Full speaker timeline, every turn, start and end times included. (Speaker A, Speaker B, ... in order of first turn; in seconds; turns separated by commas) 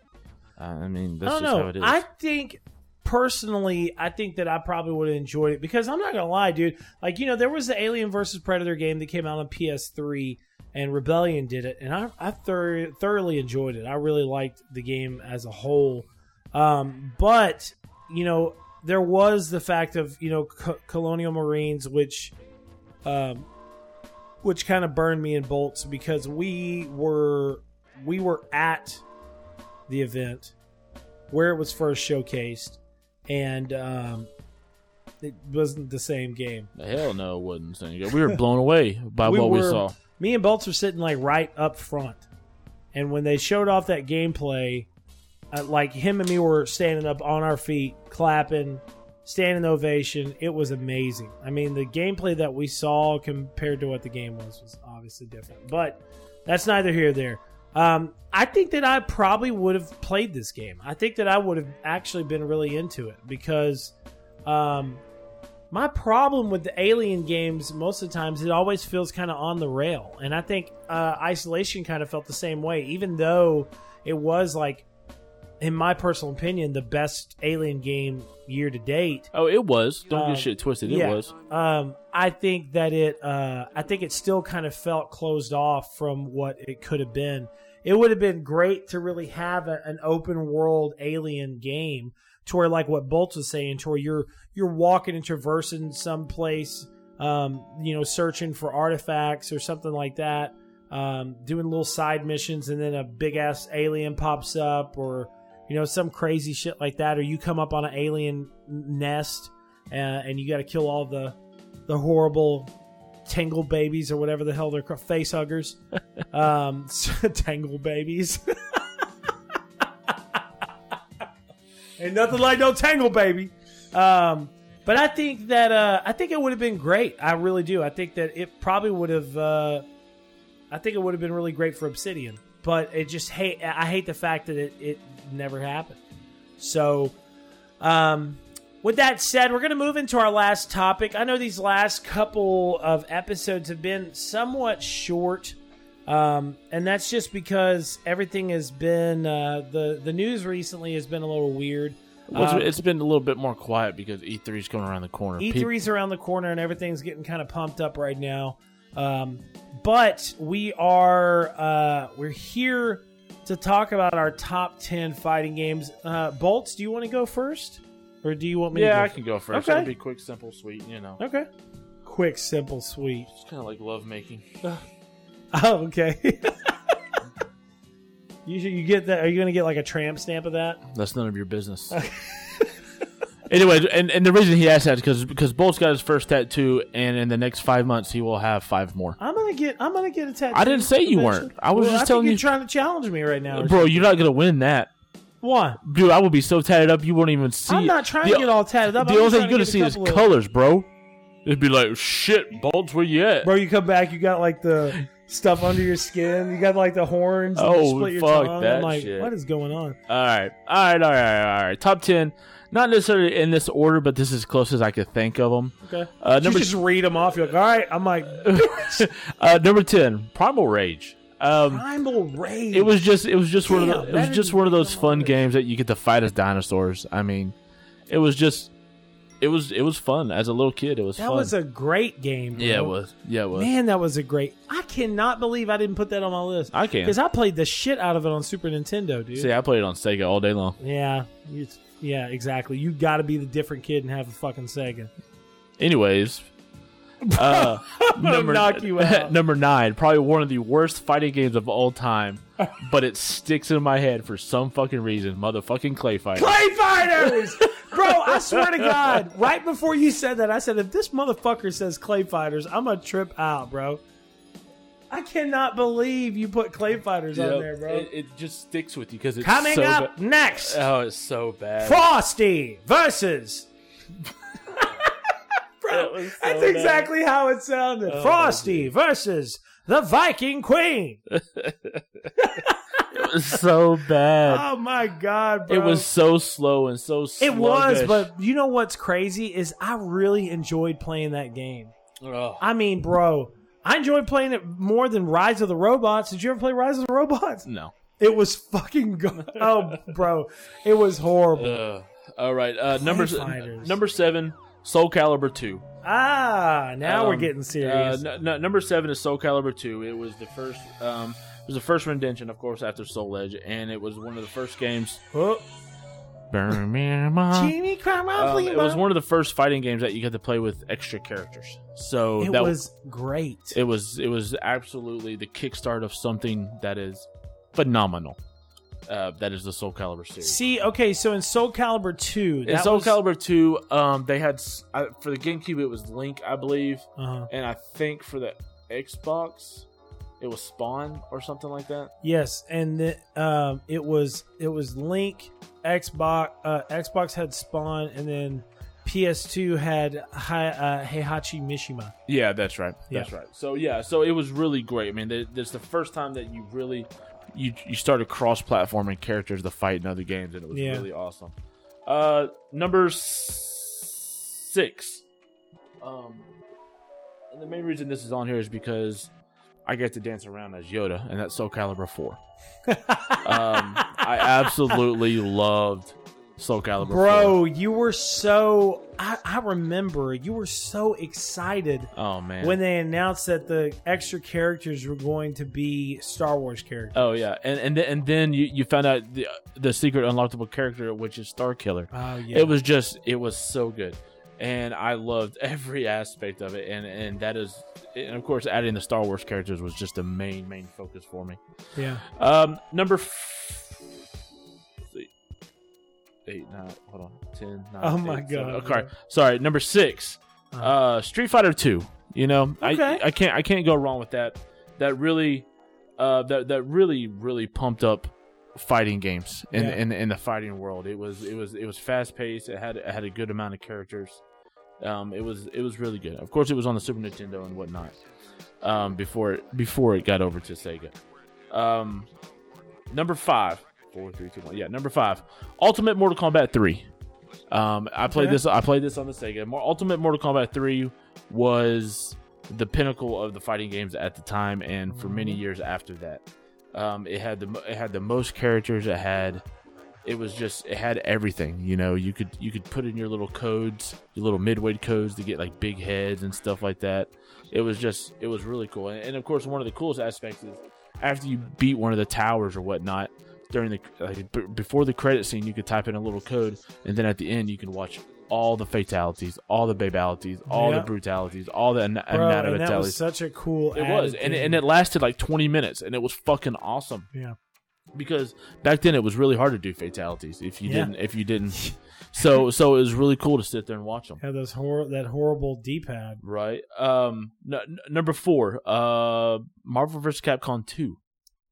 Speaker A: 0.6-2.0, Speaker B: 1.2-22.3, Speaker B: 23.0-23.5, Speaker B: 24.4-29.0, Speaker B: 29.9-30.5, Speaker B: 31.3-34.3, Speaker B: 35.2-36.7, Speaker A: 36.8-40.0, Speaker B: 39.2-42.2, Speaker B: 42.9-44.9, Speaker B: 45.5-63.9, Speaker B: 64.5-65.0, Speaker B: 65.7-74.9, Speaker B: 75.6-79.3, Speaker A: 79.3-81.3, Speaker B: 80.1-112.7, Speaker B: 113.2-118.9, Speaker B: 120.1-120.4, Speaker B: 122.0-129.8, Speaker B: 130.7-136.0, Speaker B: 136.6-137.1, Speaker B: 137.8-152.7, Speaker A: 152.3-155.7, Speaker B: 155.4-169.9, Speaker A: 168.7-171.2, Speaker B: 171.2-171.5, Speaker B: 172.0-173.3, Speaker A: 173.3-174.7, Speaker B: 175.5-176.8, Speaker B: 178.4-180.8, Speaker A: 180.9-182.0, Speaker B: 181.9-182.7, Speaker A: 183.5-189.2, Speaker B: 189.2-194.1, Speaker A: 190.5-192.4, Speaker A: 193.5-194.9, Speaker B: 195.4-195.8, Speaker A: 195.8-200.9, Speaker B: 197.7-200.3, Speaker A: 201.4-203.5, Speaker B: 203.4-210.0, Speaker A: 207.6-209.3, Speaker A: 210.1-216.8, Speaker B: 215.8-219.1, Speaker A: 218.3-221.8, Speaker B: 221.7-223.0, Speaker A: 222.7-227.5, Speaker B: 223.6-225.4, Speaker A: 228.1-228.7, Speaker A: 229.4-231.5, Speaker B: 231.2-232.9, Speaker A: 232.5-233.7, Speaker B: 233.5-239.5, Speaker A: 236.7-237.1, Speaker A: 239.3-240.8, Speaker B: 240.8-245.1, Speaker A: 245.8-246.5, Speaker B: 247.2-249.3, Speaker A: 247.3-259.2, Speaker B: 256.4-264.0, Speaker B: 265.1-268.1, Speaker A: 267.3-272.1, Speaker B: 269.4-270.8, Speaker B: 271.8-273.7, Speaker B: 274.7-275.1, Speaker B: 275.8-281.2, Speaker A: 275.9-277.1, Speaker A: 278.1-278.9, Speaker A: 281.3-282.3, Speaker B: 282.4-283.6, Speaker A: 283.1-284.6, Speaker B: 284.4-286.1, Speaker A: 285.7-288.3, Speaker B: 287.4-291.9, Speaker A: 292.2-292.6, Speaker B: 292.6-297.7, Speaker A: 297.6-297.9, Speaker B: 298.2-301.8, Speaker A: 299.4-300.1, Speaker A: 301.5-305.8, Speaker B: 302.9-303.9, Speaker B: 306.0-308.2, Speaker A: 307.0-315.2, Speaker B: 315.3-315.6, Speaker A: 316.5-317.7, Speaker B: 317.5-319.0, Speaker A: 318.3-322.8, Speaker B: 322.4-323.8, Speaker A: 323.7-328.4, Speaker A: 329.1-330.6, Speaker B: 330.4-333.2, Speaker A: 332.6-339.9, Speaker B: 337.2-337.5, Speaker A: 340.4-342.1, Speaker B: 342.2-352.1, Speaker A: 352.3-361.5, Speaker B: 360.7-361.1, Speaker A: 362.1-365.2, Speaker A: 366.0-366.5, Speaker A: 367.5-369.3, Speaker A: 369.8-372.4, Speaker B: 372.9-375.0, Speaker A: 373.4-377.6, Speaker B: 377.0-387.4, Speaker A: 382.1-382.8, Speaker A: 387.1-401.6, Speaker B: 392.1-392.7, Speaker B: 401.9-402.2, Speaker A: 402.3-404.2, Speaker A: 405.0-405.3, Speaker A: 406.4-424.4, Speaker B: 408.0-409.1, Speaker B: 412.8-413.2, Speaker B: 419.7-420.0, Speaker A: 425.0-428.1, Speaker A: 428.8-431.2, Speaker A: 431.7-432.3, Speaker A: 433.1-437.1, Speaker A: 437.7-449.6, Speaker B: 438.3-438.6, Speaker B: 445.2-445.6, Speaker A: 450.2-473.2, Speaker B: 470.7-471.1, Speaker B: 472.3-474.8, Speaker A: 473.9-477.3, Speaker A: 478.1-484.4, Speaker B: 480.8-481.1, Speaker B: 484.4-486.4, Speaker A: 486.4-491.2